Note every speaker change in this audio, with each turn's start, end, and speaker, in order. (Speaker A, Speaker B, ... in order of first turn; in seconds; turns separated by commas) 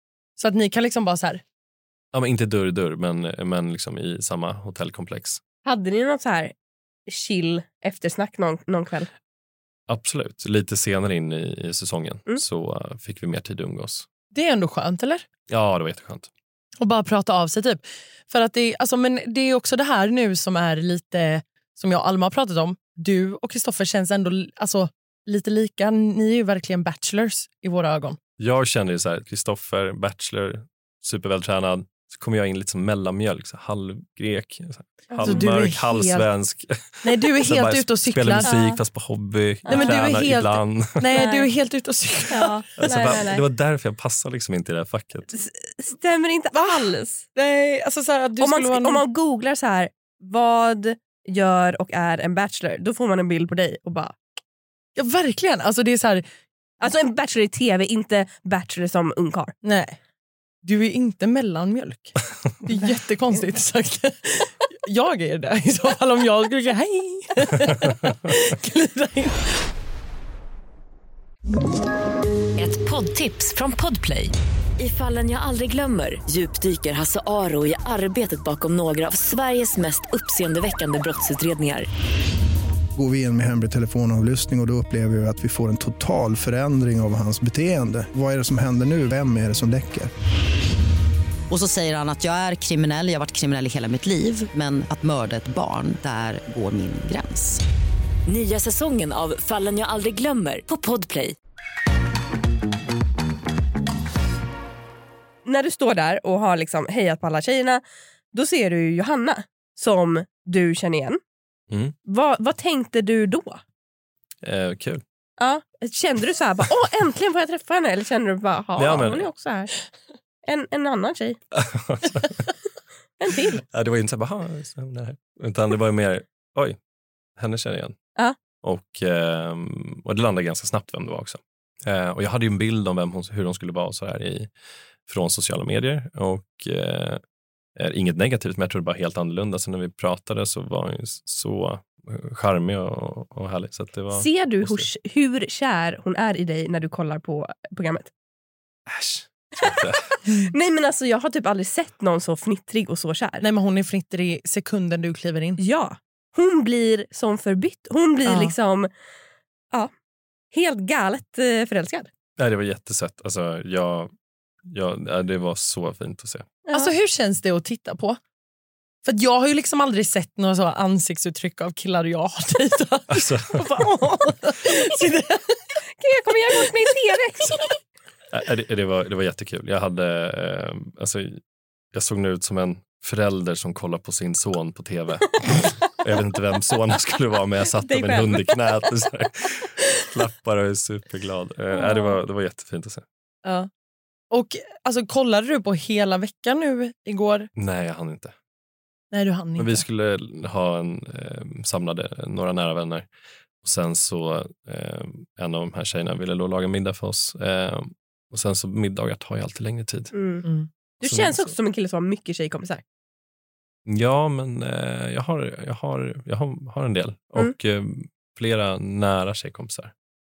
Speaker A: 0.4-1.4, Speaker B: 2.1-5.4, Speaker C: 5.7-6.5, Speaker C: 7.1-9.1, Speaker B: 9.9-14.1, Speaker A: 14.3-15.3, Speaker B: 15.5-16.3, Speaker A: 16.8-28.2, Speaker B: 28.4-41.1, Speaker C: 35.1-35.5, Speaker A: 35.2-36.3, Speaker A: 37.0-38.5, Speaker C: 38.5-38.8, Speaker C: 39.7-40.1, Speaker A: 39.7-42.6, Speaker C: 41.1-41.5, Speaker C: 42.3-43.4, Speaker B: 42.8-45.3, Speaker C: 45.3-47.3, Speaker A: 46.5-49.0, Speaker C: 48.4-54.2, Speaker A: 55.0-56.2, Speaker C: 56.8-59.5, Speaker A: 59.6-60.0, Speaker A: 60.6-69.4, Speaker C: 62.7-63.4, Speaker D: 72.6-81.9, Speaker E: 83.0-90.1, Speaker F: 91.5-97.6, Speaker D: 98.3-101.3, Speaker C: 105.5-107.8, Speaker C: 108.3-111.2, Speaker B: 111.7-112.0, Speaker C: 112.1-113.6, Speaker B: 114.4-115.0, Speaker C: 115.4-119.7, Speaker B: 118.8-119.3, Speaker C: 120.5-121.4, Speaker B: 121.5-122.5, Speaker C: 123.2-123.6, Speaker B: 123.7-126.8, Speaker B: 127.4-128.0, Speaker B: 128.6-134.5, Speaker B: 135.1-137.2, Speaker B: 137.8-144.9, Speaker C: 144.1-148.1, Speaker B: 148.9-150.1, Speaker C: 150.3-153.4, Speaker A: 153.4-155.6, Speaker C: 155.6-158.9, Speaker A: 158.2-158.5, Speaker C: 160.5-162.1, Speaker B: 162.4-164.1, Speaker B: 164.7-166.6, Speaker C: 166.7-166.9, Speaker A: 166.7-168.2, Speaker A: 169.1-175.8, Speaker B: 173.1-173.8, Speaker C: 176.0-177.7, Speaker B: 178.3-181.4, Speaker B: 181.9-193.0, Speaker C: 187.8-188.6, Speaker C: 191.8-192.2, Speaker A: 194.3-197.5, Speaker B: 197.6-198.3, Speaker A: 199.1-199.8, Speaker B: 199.6-203.1, Speaker B: 203.6-210.1, Speaker C: 210.1-210.5, Speaker C: 211.0-212.8, Speaker B: 211.0-211.5, Speaker B: 213.9-219.9